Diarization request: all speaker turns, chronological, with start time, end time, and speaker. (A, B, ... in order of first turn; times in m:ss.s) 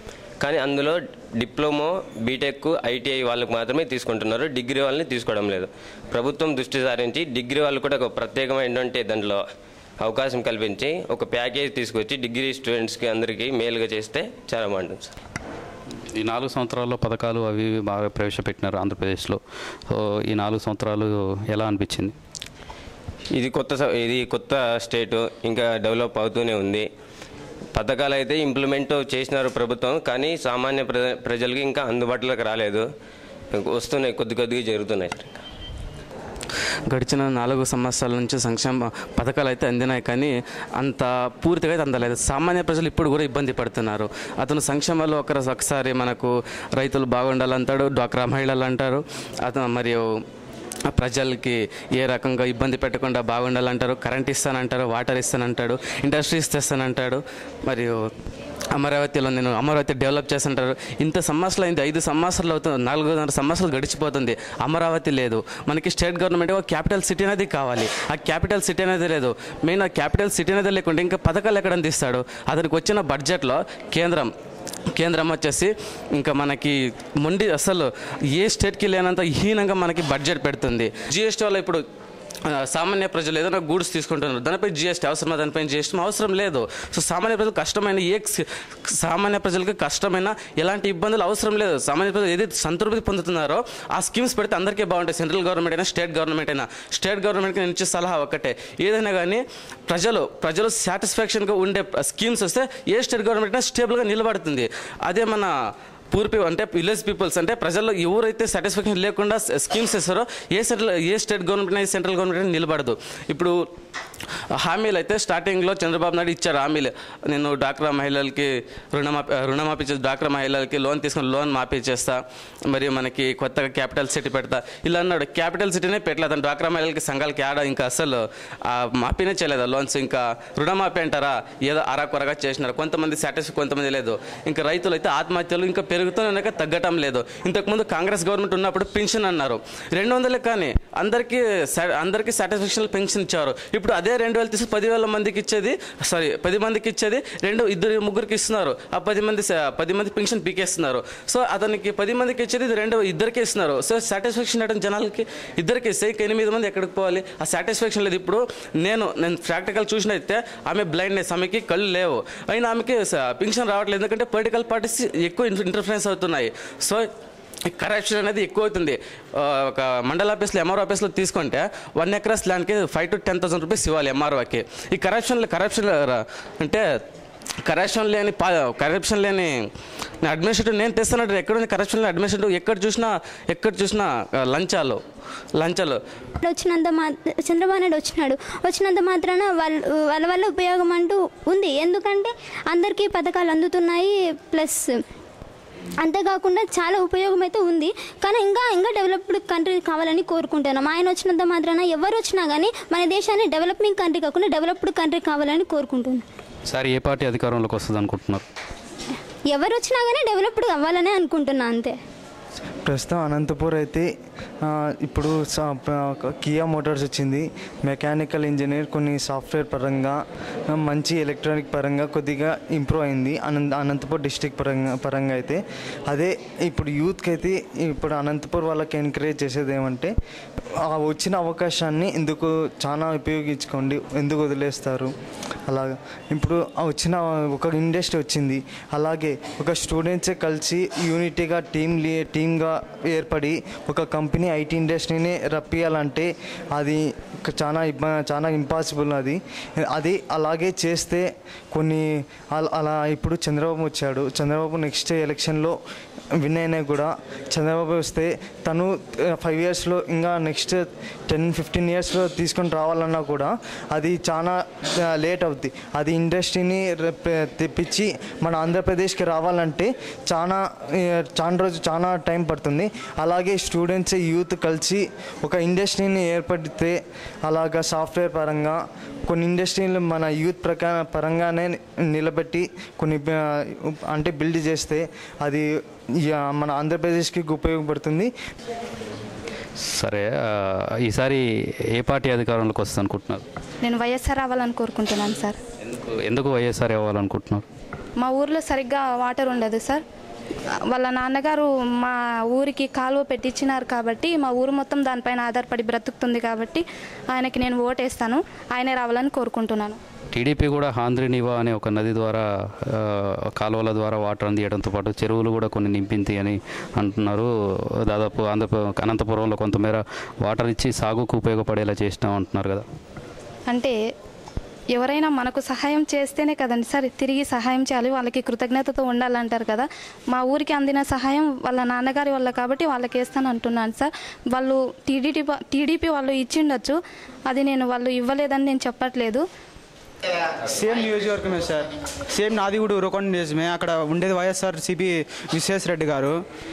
0:00.4-0:09.4 A
0:10.0-0:15.1 A
0:16.2-0:19.4 B
0:19.9-0:22.1 B
0:23.3-0:26.9 A
0:27.8-0:32.9 A
0:33.5-0:35.4 A
0:36.9-0:50.0 C
0:50.9-0:58.1 C
0:58.8-1:14.3 C
1:15.0-1:21.8 C
1:22.5-1:28.4 C
1:29.0-1:45.5 C
1:46.1-1:53.6 C
1:54.6-2:47.1 C
2:47.7-2:56.8 C
2:57.7-2:59.5 C
3:00.2-3:05.0 C
3:05.6-3:06.0 C
3:06.4-3:15.0 D
3:16.0-3:26.2 D
3:26.7-3:28.4 B
3:29.5-3:32.0 D
3:32.9-3:34.1 E
3:34.6-3:50.1 E
3:50.8-3:55.1 E
3:55.7-4:15.8 E
4:16.4-4:24.6 E
4:25.1-4:45.6 E
4:46.3-4:48.3 E
4:49.9-4:51.4 B
4:52.0-4:53.4 B
4:53.8-4:55.6 F
4:55.8-4:57.6 B
4:58.2-5:00.0 F
5:00.9-5:10.0 F
5:10.3-5:12.4 B
5:13.5-5:17.5 B
5:18.1-5:22.8 B
5:24.9-5:36.9 F
5:37.5-5:39.4 F
5:40.6-5:46.4 G